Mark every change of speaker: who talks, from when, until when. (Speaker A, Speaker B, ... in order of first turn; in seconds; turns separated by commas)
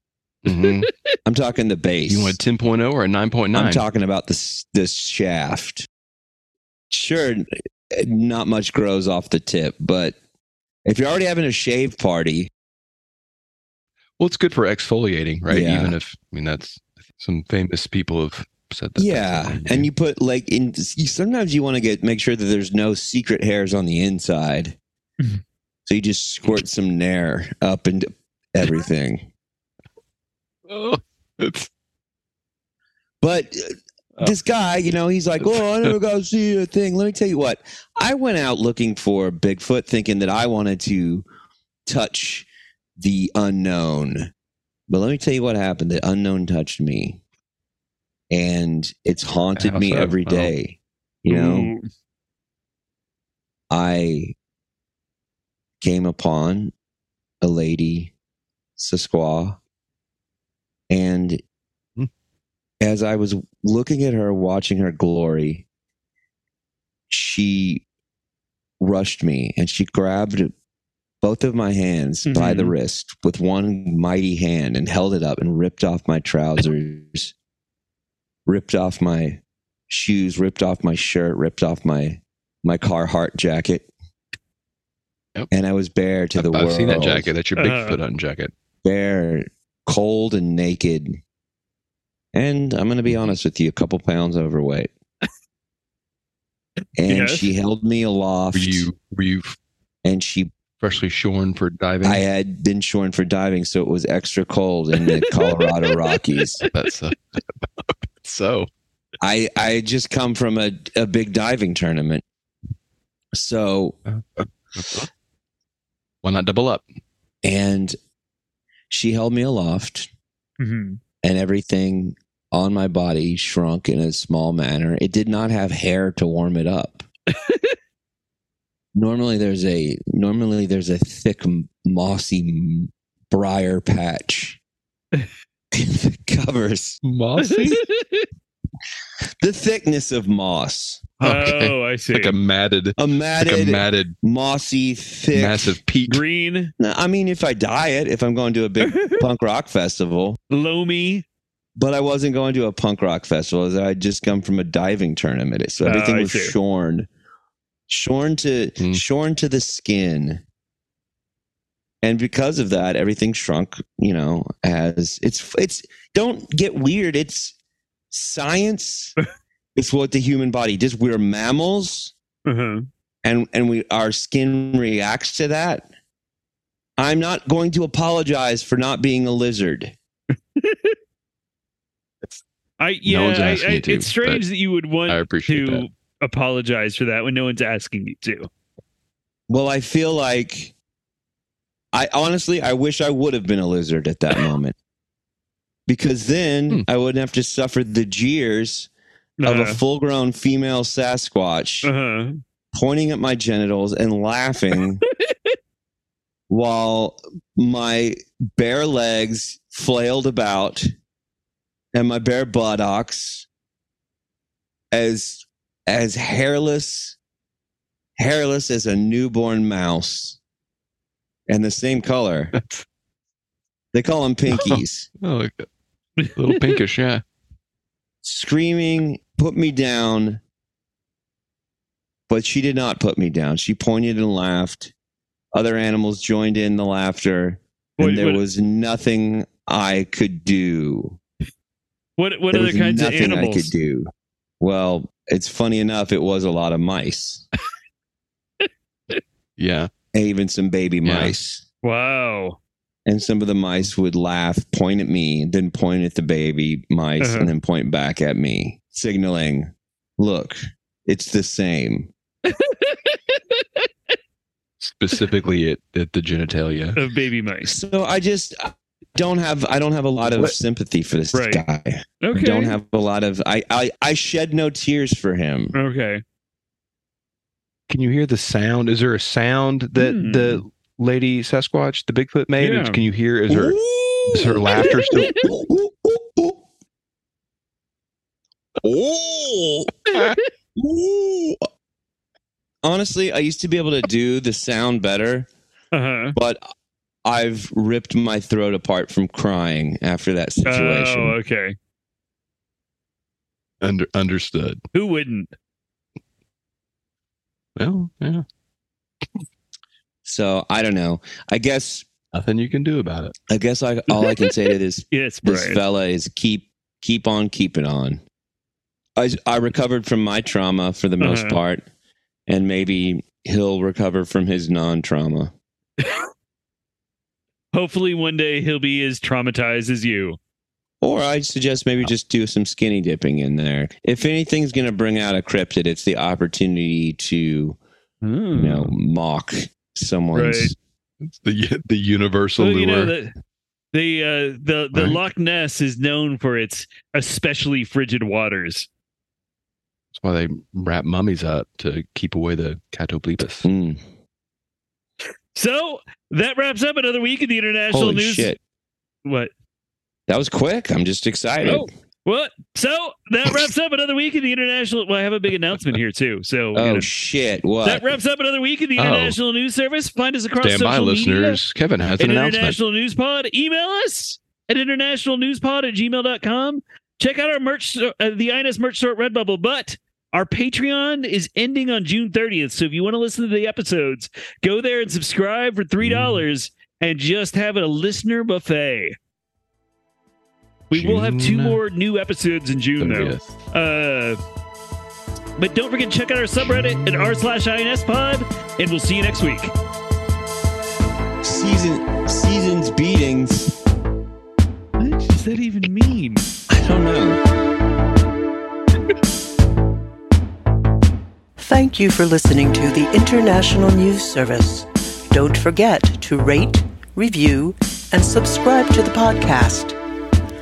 Speaker A: 0.4-0.9, Speaker B: 0.5-1.1, Speaker C: 1.3-2.4, Speaker A: 2.1-3.9, Speaker C: 3.5-5.9, Speaker C: 6.9-10.2, Speaker C: 10.8-12.5, Speaker A: 14.2-19.9, Speaker C: 15.5-16.0, Speaker C: 19.0-24.8, Speaker C: 25.9-29.3, Speaker A: 30.7-31.7, Speaker C: 33.2-41.2, Speaker A: 35.5-35.9, Speaker C: 41.9-42.5, Speaker C: 43.0-44.3, Speaker C: 44.9-47.2, Speaker C: 48.3-51.7, Speaker A: 49.6-50.5, Speaker B: 51.3-51.8, Speaker C: 53.7-54.4, Speaker C: 55.8-56.7, Speaker C: 57.4-58.1, Speaker C: 58.8-59.6, Speaker C: 60.9-61.4, Speaker C: 62.8-65.7, Speaker C: 67.1-67.8, Speaker C: 68.8-70.5, Speaker C: 71.2-77.3, Speaker B: 72.3-72.8, Speaker C: 78.5-83.9, Speaker C: 85.5-87.3, Speaker A: 86.4-88.5, Speaker B: 87.6-88.0, Speaker C: 88.8-91.2, Speaker C: 92.3-94.9, Speaker C: 97.0-98.9, Speaker B: 97.1-97.5, Speaker A: 98.5-99.5, Speaker C: 100.0-100.5, Speaker A: 100.8-102.2, Speaker C: 102.0-106.6, Speaker B: 105.0-106.7, Speaker A: 106.7-108.7, Speaker C: 109.2-112.2, Speaker C: 113.3-114.0, Speaker A: 114.1-115.1, Speaker A: 116.2-116.8, Speaker C: 117.4-118.0, Speaker C: 118.9-120.1, Speaker B: 120.6-121.0, Speaker C: 121.2-127.1, Speaker B: 127.3-127.8, Speaker C: 128.9-134.6, Speaker C: 135.7-137.0, Speaker A: 137.0-137.8, Speaker B: 137.4-138.3, Speaker C: 139.4-141.0, Speaker B: 141.2-142.3, Speaker A: 141.2-144.2, Speaker C: 143.0-145.8, Speaker A: 145.3-146.2, Speaker B: 146.1-146.7, Speaker C: 146.8-150.4, Speaker B: 148.8-149.2, Speaker B: 150.5-151.2, Speaker C: 151.8-157.1, Speaker B: 155.8-156.6, Speaker C: 157.9-160.4, Speaker C: 162.0-167.6, Speaker C: 168.1-169.2, Speaker C: 169.8-172.1, Speaker B: 172.5-172.9, Speaker C: 173.2-175.9, Speaker C: 177.0-179.9, Speaker B: 180.6-181.0, Speaker B: 182.8-188.5, Speaker A: 183.1-184.4, Speaker A: 185.1-185.8, Speaker C: 189.5-190.7, Speaker C: 191.9-194.8, Speaker C: 195.9-198.9, Speaker B: 199.4-199.8, Speaker C: 199.4-201.9, Speaker B: 201.8-202.4, Speaker C: 202.7-205.0, Speaker B: 205.1-205.6, Speaker C: 206.5-210.9, Speaker C: 211.9-213.5, Speaker C: 214.9-217.2, Speaker C: 218.2-220.4, Speaker C: 221.5-222.5, Speaker A: 222.5-222.8, Speaker C: 223.9-225.1, Speaker A: 224.5-225.7, Speaker B: 226.2-226.8, Speaker A: 226.4-227.2, Speaker C: 228.2-230.4, Speaker C: 232.3-234.9, Speaker C: 235.5-241.2, Speaker B: 238.0-238.4, Speaker B: 242.2-243.7, Speaker C: 242.5-247.4, Speaker A: 249.6-249.9, Speaker C: 250.1-251.6, Speaker A: 251.1-251.3, Speaker B: 251.8-252.6, Speaker C: 253.1-262.1, Speaker B: 257.2-257.5, Speaker B: 262.5-263.9, Speaker A: 264.8-267.0, Speaker B: 267.0-267.8, Speaker C: 267.6-275.7, Speaker A: 270.2-270.5, Speaker B: 271.3-271.6, Speaker B: 272.2-272.8, Speaker B: 275.7-276.2, Speaker A: 277.9-285.4, Speaker B: 280.0-280.6, Speaker B: 282.6-283.0, Speaker C: 283.5-286.6, Speaker B: 285.1-285.4, Speaker C: 288.8-289.9, Speaker B: 290.1-290.5, Speaker A: 290.1-290.4, Speaker C: 290.8-291.6, Speaker C: 292.8-295.5, Speaker B: 295.9-296.4, Speaker C: 296.4-296.6, Speaker C: 297.2-301.4, Speaker B: 300.7-301.8, Speaker A: 303.8-304.8, Speaker B: 304.9-305.5, Speaker A: 307.8-308.4, Speaker C: 310.2-312.1, Speaker A: 312.3-313.4, Speaker C: 313.5-318.2, Speaker B: 314.1-314.6, Speaker B: 315.1-315.8, Speaker C: 319.2-321.9, Speaker B: 321.2-321.6, Speaker C: 322.5-325.5, Speaker B: 326.0-326.3, Speaker B: 327.7-330.4, Speaker C: 331.0-337.8, Speaker B: 338.2-338.9, Speaker C: 338.6-340.8, Speaker B: 340.3-340.7, Speaker A: 341.2-343.1, Speaker B: 342.6-343.3, Speaker B: 343.9-348.9, Speaker A: 344.9-345.2, Speaker A: 350.1-353.7, Speaker C: 353.6-354.0, Speaker B: 355.6-358.6, Speaker C: 357.9-358.6, Speaker B: 359.2-359.5, Speaker C: 360.3-361.9, Speaker B: 361.6-367.1, Speaker C: 366.8-368.1, Speaker B: 367.8-371.6, Speaker A: 369.0-369.4, Speaker A: 370.6-372.8, Speaker B: 372.2-389.2, Speaker A: 386.0-386.4, Speaker B: 390.9-394.4, Speaker A: 390.9-391.8, Speaker A: 393.0-393.5, Speaker B: 395.6-399.7, Speaker C: 401.4-403.8, Speaker B: 405.0-406.4, Speaker C: 406.7-407.4, Speaker D: 411.6-420.0